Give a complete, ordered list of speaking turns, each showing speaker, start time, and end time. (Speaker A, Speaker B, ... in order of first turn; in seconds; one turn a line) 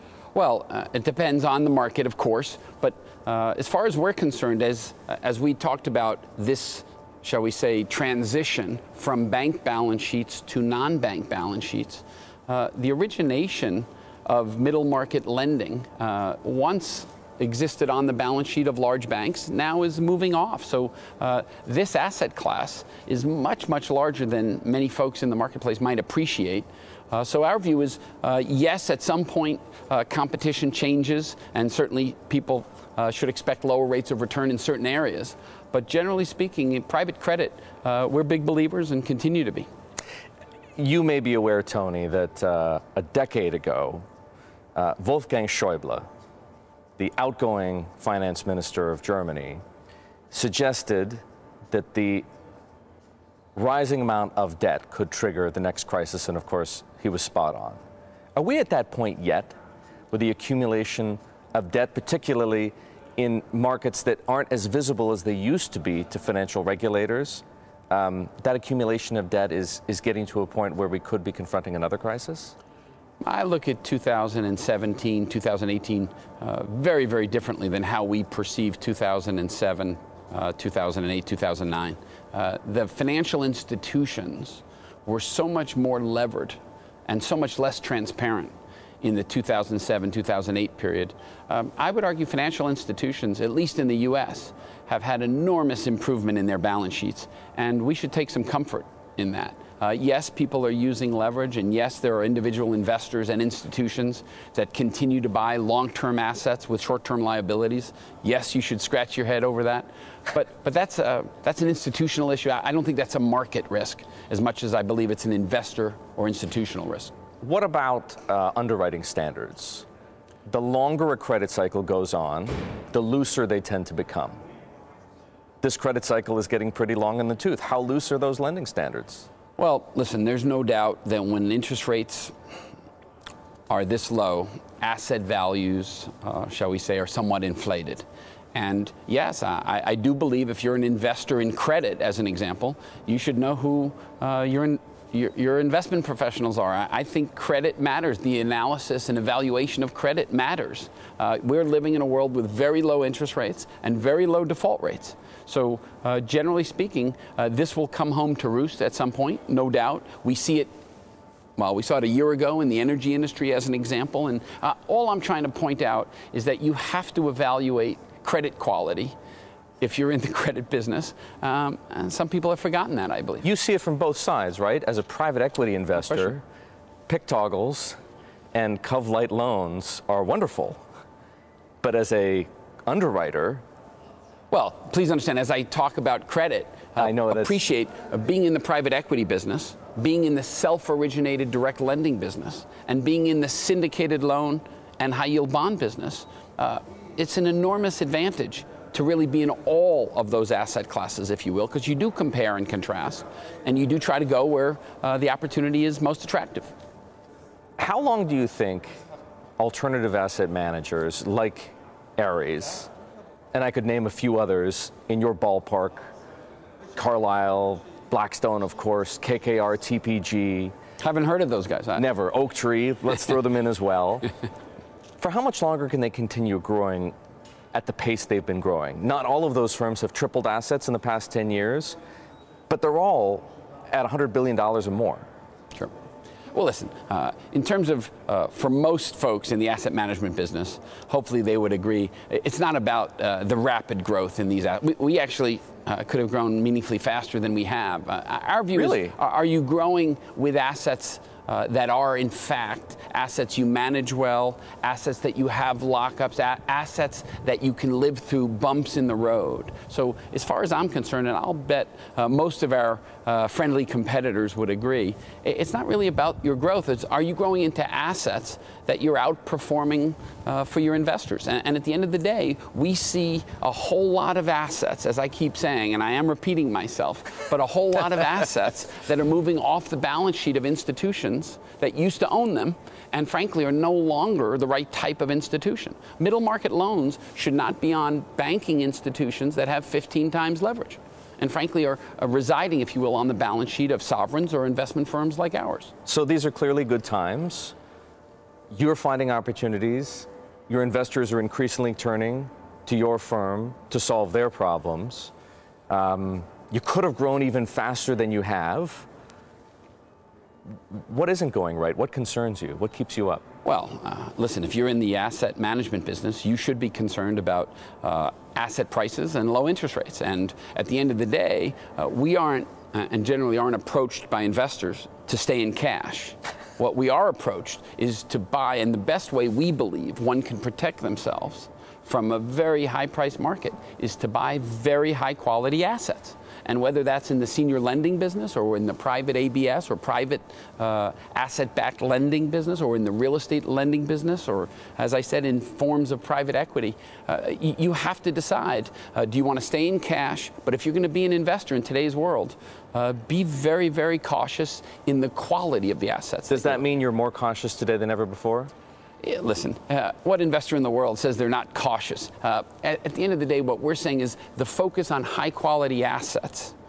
Speaker A: 0.3-39.7
Speaker B: 40.8-44.0
Speaker B: 44.7-46.1
Speaker B: 47.0-49.6
Speaker B: 50.3-52.2
Speaker B: 53.5-57.8
Speaker B: 58.4-59.5
Speaker B: 60.1-72.5
Speaker A: 73.2-117.1
Speaker B: 117.4-119.8
Speaker B: 120.5-124.4
Speaker B: 125.6-129.3
Speaker A: 129.6-132.3
Speaker A: 133.7-160.7
Speaker A: 161.6-169.1
Speaker A: 169.8-173.5
Speaker B: 173.4-176.4
Speaker B: 177.1-178.0
Speaker B: 178.5-180.8
Speaker B: 181.8-183.6
Speaker A: 184.5-206.7
Speaker B: 187.0-187.6
Speaker B: 207.8-208.9
Speaker B: 209.6-212.9
Speaker B: 213.5-216.1
Speaker B: 216.9-220.7
Speaker A: 221.0-222.1
Speaker B: 221.9-224.3
Speaker B: 225.2-227.1
Speaker B: 227.7-232.0
Speaker B: 232.7-235.2
Speaker A: 236.5-295.9
Speaker B: 248.7-249.1
Speaker B: 296.1-297.7
Speaker B: 298.7-305.3
Speaker B: 305.9-309.1
Speaker B: 310.9-313.4
Speaker A: 313.6-356.8
Speaker B: 356.5-358.7
Speaker A: 359.2-366.7